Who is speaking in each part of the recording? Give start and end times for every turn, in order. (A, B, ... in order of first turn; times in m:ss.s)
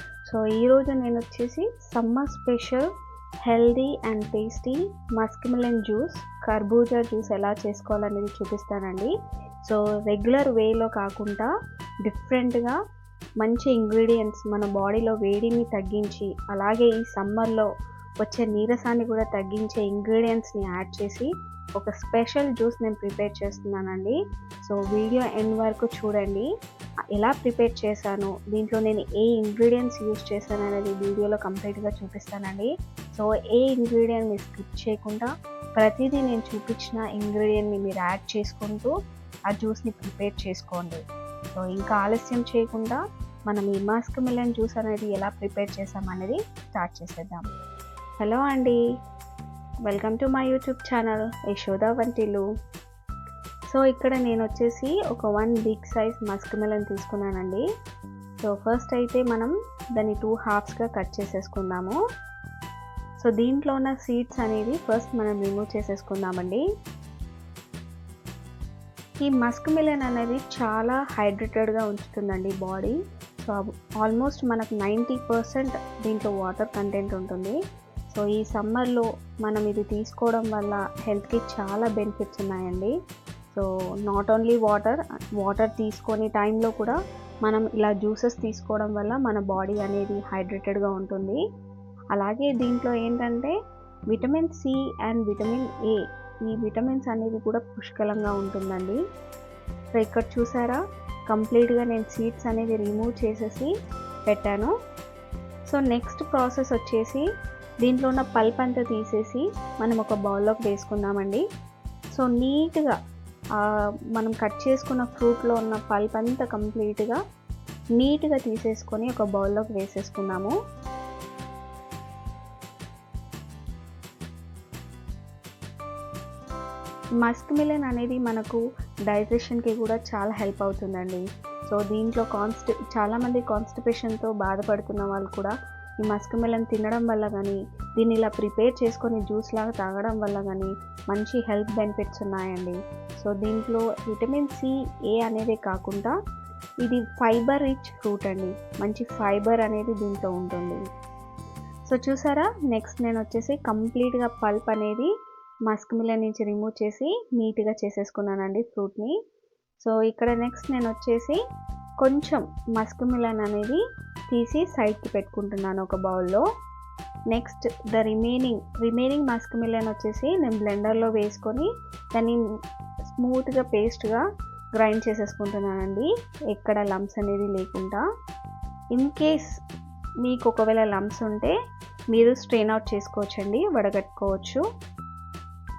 0:00.2-0:02.9 A
0:03.5-0:09.1 A
0:09.6-0:11.5 A
0:12.0-0:12.8 A
0:13.4-0:17.7 A
0:18.2-0:26.5 A
0:27.1-0:38.9 A
0:39.5-0:41.0 A
0:41.5-0:47.5 A
0:48.2-0:48.8 A
0:49.8-0:52.4 A
0:53.7-0:57.7 A
0:58.4-1:02.0 A
1:03.2-1:06.6 A
1:09.2-1:17.6 A
1:18.1-1:23.0 A
1:23.5-1:31.4 A
1:32.1-1:33.6 A
1:34.1-1:39.0 A
1:40.0-1:43.7 A
1:44.3-1:44.7 A
1:45.7-1:47.3 A
1:47.8-1:51.4 A
1:52.2-1:53.0 A
1:53.6-1:57.2 A
1:58.0-2:00.6 A
2:07.2-2:26.1 A
2:26.8-2:30.8 A
2:31.9-2:35.1 A
2:35.7-2:39.2 A
2:39.8-2:41.4 A
2:42.0-2:46.4 A
2:47.3-2:52.4 A
2:53.0-2:54.2 A
2:54.8-2:58.0 A
2:58.9-2:59.6 A
3:00.2-3:01.6 A
3:02.1-3:04.6 A